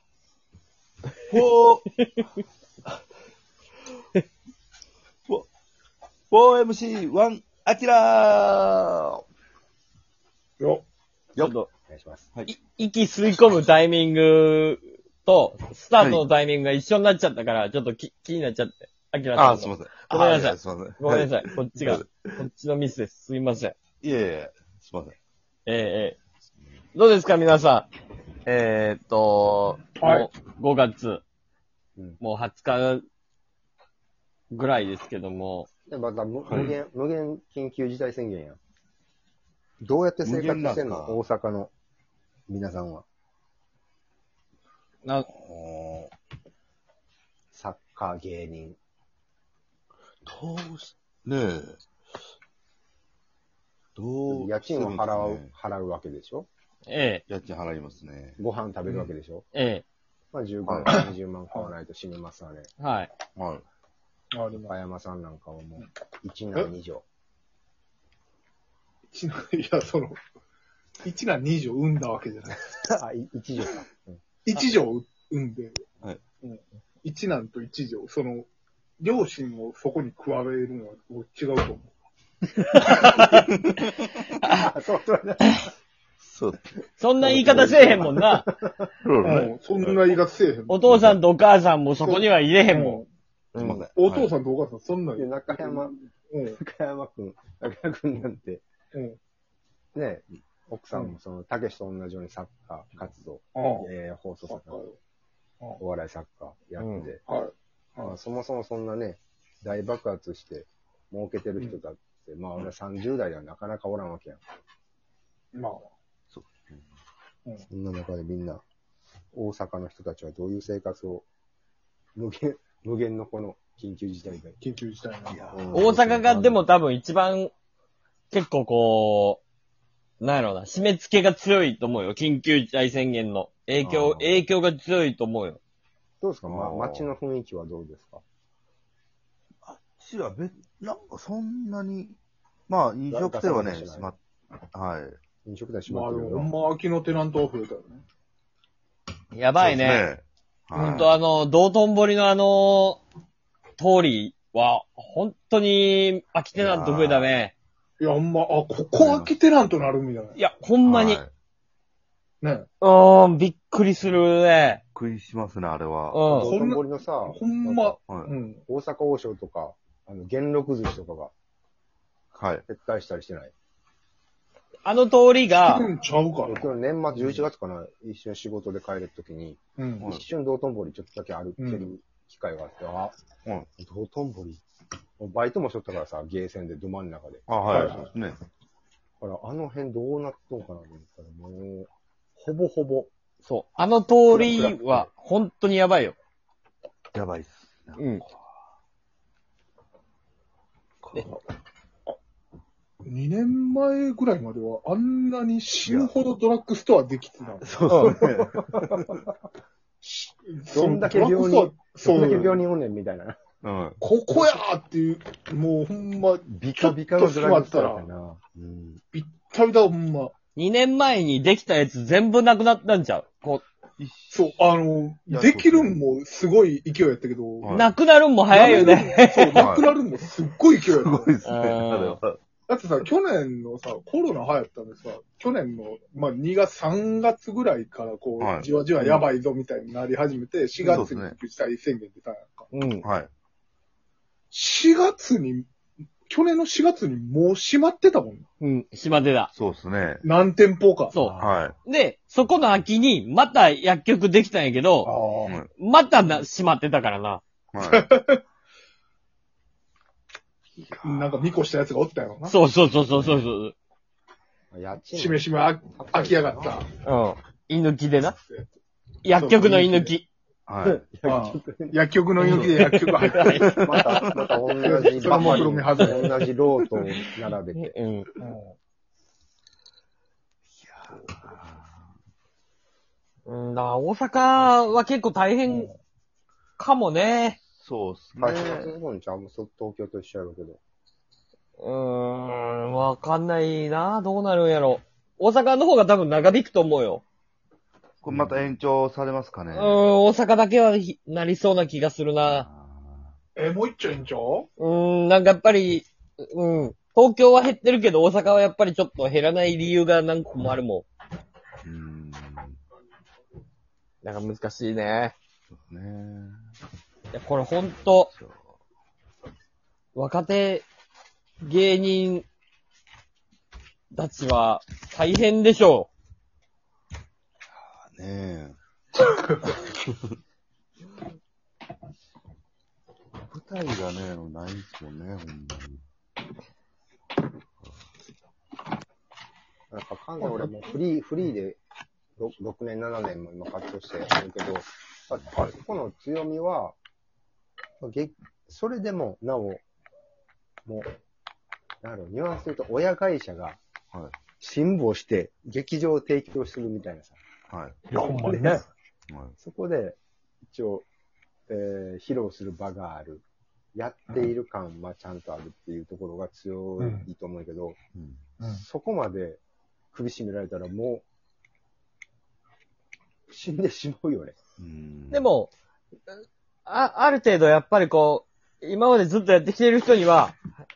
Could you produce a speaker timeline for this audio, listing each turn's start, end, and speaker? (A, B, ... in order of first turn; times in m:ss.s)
0:01.2-0:01.9 A
0:06.3-0:09.2 A
0:11.4-0:11.7 B
0:11.9-0:12.3 C
0:12.5-0:23.7 B
0:16.0-0:16.2 A
0:19.3-0:22.1 A
0:24.0-0:25.2 A
0:25.7-0:26.2 B
0:26.9-0:27.9 B
0:28.4-0:31.2 B
0:30.0-0:30.3 D
0:32.2-0:33.0 B
0:34.5-0:35.7 B
0:35.9-0:38.6 C
0:39.8-0:41.7 C
0:40.2-0:41.2 A
0:42.5-0:43.0 C
0:45.3-0:46.1 A
0:47.5-0:48.8 C
0:50.2-0:51.8 A
0:54.0-0:55.5 A
0:54.3-0:56.5 C
0:56.8-0:57.2 B
0:57.3-0:58.4 A
0:58.4-0:59.4 C
0:59.5-0:59.8 B
1:00.3-1:02.7 C
1:00.6-1:01.0 A
1:00.9-1:01.7 D
1:02.8-1:03.1 B
1:03.4-1:03.6 A
1:04.3-1:04.7 D
1:04.5-1:07.0 C
1:09.1-1:10.2 D
1:11.0-1:12.6 D
1:12.7-1:14.2 C
1:14.4-1:15.8 D
1:16.4-1:18.5 D
1:19.0-1:21.9 D
1:22.6-1:23.5 B
1:22.8-1:23.3 D
1:23.3-1:24.3 A
1:24.4-1:25.7 C
1:26.2-1:26.7 A
1:27.0-1:28.5 B
1:27.2-1:28.9 C
1:27.7-1:28.0 A
1:29.0-1:30.1 A
1:29.2-1:30.8 D
1:30.7-1:33.0 B
1:30.8-1:31.2 A
1:32.0-1:33.1 D
1:33.5-1:33.8 B
1:33.6-1:34.3 A
1:34.0-1:36.6 D
1:35.2-1:38.6 C
1:39.9-1:44.8 C
1:43.5-1:43.9 D
1:44.5-1:45.0 D
1:45.8-1:47.2 C
1:46.8-1:47.1 B
1:47.3-1:48.1 D
1:48.0-1:54.4 C
1:55.5-1:55.8 D
1:56.3-1:56.9 A
1:57.7-1:58.6 C
1:59.3-2:01.2 C
2:02.2-2:04.6 C
2:04.6-2:05.6 D
2:05.3-2:05.9 A
2:05.5-2:06.6 C
2:05.7-2:07.5 B
2:08.3-2:09.4 B
2:10.2-2:15.6 B
2:13.8-2:14.3 A
2:16.2-2:18.2 C
2:16.5-2:17.1 A
2:19.6-2:22.2 A
2:22.7-2:24.2 A
2:23.1-2:24.1 C
2:24.7-2:25.2 A
2:25.4-2:26.5 C
2:25.9-2:28.0 D
2:29.3-2:30.0 B
2:29.6-2:31.1 A
2:30.7-2:33.0 B
2:33.8-2:37.5 B
2:36.6-2:37.3 A
2:38.0-2:40.4 D
2:38.9-2:39.3 A
2:40.4-2:41.2 B
2:40.8-2:41.3 A
2:42.4-2:42.7 D
2:42.8-2:44.8 B
2:44.9-2:46.3 A
2:46.1-2:46.6 B
2:46.3-2:48.0 C
2:46.4-2:48.6 D
2:48.1-2:48.3 A
2:48.7-2:51.3 C
2:52.3-2:52.6 A
2:52.7-2:53.5 C
2:54.8-2:55.9 B
2:55.5-2:57.4 D
2:56.4-3:03.2 C
2:59.8-3:00.1 D
3:01.6-3:01.9 D
3:03.8-3:04.6 C
3:05.2-3:08.0 C
3:07.5-3:08.4 A
3:07.7-3:08.0 D
3:09.2-3:11.9 C
3:12.4-3:13.1 D
3:13.4-3:16.2 B
3:14.3-3:15.1 C
3:17.1-3:18.3 A
3:18.0-3:18.2 B
3:21.0-3:21.3 A
3:23.0-3:29.1 D
3:25.8-3:26.1 A
3:27.6-3:29.0 A
3:27.9-3:28.2 B
3:28.0-3:29.2 C
3:30.0-3:32.6 D
3:30.7-3:33.4 C
3:33.6-3:34.0 A
3:34.0-3:38.0 D
3:36.5-3:39.0 C
3:39.1-3:40.3 D
3:40.6-3:43.6 B
3:44.0-3:44.5 A
3:44.3-3:47.8 D
3:45.3-3:46.1 A
3:47.6-3:47.9 A
3:47.7-3:49.7 B
3:48.5-3:51.3 D
3:49.5-3:50.0 A
3:50.8-3:52.4 A
3:51.4-3:52.2 B
3:52.7-4:02.7 D
3:58.4-3:58.7 A
4:00.8-4:01.4 A
4:02.7-4:03.0 B
4:03.0-4:03.3 A
4:04.5-4:05.7 D
4:06.3-4:08.4 D
4:08.6-4:09.5 B
4:09.5-4:10.2 A
4:10.2-4:11.2 D
4:11.1-4:15.1 B
4:11.2-4:11.6 C
4:11.4-4:11.8 A
4:15.0-4:15.6 D
4:15.4-4:15.7 A
4:15.8-4:17.4 B
4:17.7-4:18.1 A
4:17.9-4:18.4 D
4:21.0-4:22.5 D
4:22.5-4:23.7 B
4:24.7-4:26.8 C
4:25.1-4:26.9 D
4:27.0-4:28.4 B
4:28.4-4:28.7 D
4:29.2-4:30.3 B
4:29.3-4:30.1 D
4:30.7-4:31.0 A
4:31.0-4:32.0 C
4:31.2-4:33.8 D
4:32.4-4:34.3 B
4:33.5-4:37.9 C
4:34.8-4:36.5 D
4:35.3-4:36.2 B
4:37.7-4:38.3 B
4:38.4-4:38.7 D
4:41.1-4:42.0 A
4:43.4-4:45.9 B
4:45.7-4:45.9 D
4:46.8-4:47.6 B
4:47.8-4:48.9 A
4:48.4-4:50.8 C
4:51.8-4:57.2 B
4:58.2-5:00.0 A
4:58.3-4:58.7 C
4:59.7-5:02.6 B
5:02.4-5:03.3 A
5:03.6-5:04.7 D
5:04.8-5:11.0 B
5:11.8-5:12.8 A
5:14.2-5:15.3 B
5:15.7-5:16.6 A
5:17.3-5:18.3 B
5:18.3-5:18.7 A
5:20.1-5:20.8 B
5:21.6-5:22.4 B
5:24.1-5:26.1 B
5:27.7-5:28.8 A
5:29.6-5:30.2 A
5:33.5-5:36.0 A
5:39.9-5:41.8 C
5:42.4-5:47.0 C
5:48.0-5:49.8 C
5:52.0-5:53.8 C
5:54.6-5:57.4 C
5:57.7-5:58.0 A
5:58.1-5:58.8 D
5:58.2-5:58.8 C
5:59.3-5:59.5 A
5:59.6-6:01.0 C
6:01.7-6:08.0 C
6:07.0-6:07.3 D
6:08.2-6:08.4 A
6:08.7-6:09.6 C
6:10.1-6:11.2 C
6:13.5-6:14.6 C
6:14.8-6:15.5 A
6:15.3-6:15.7 B
6:16.8-6:20.6 B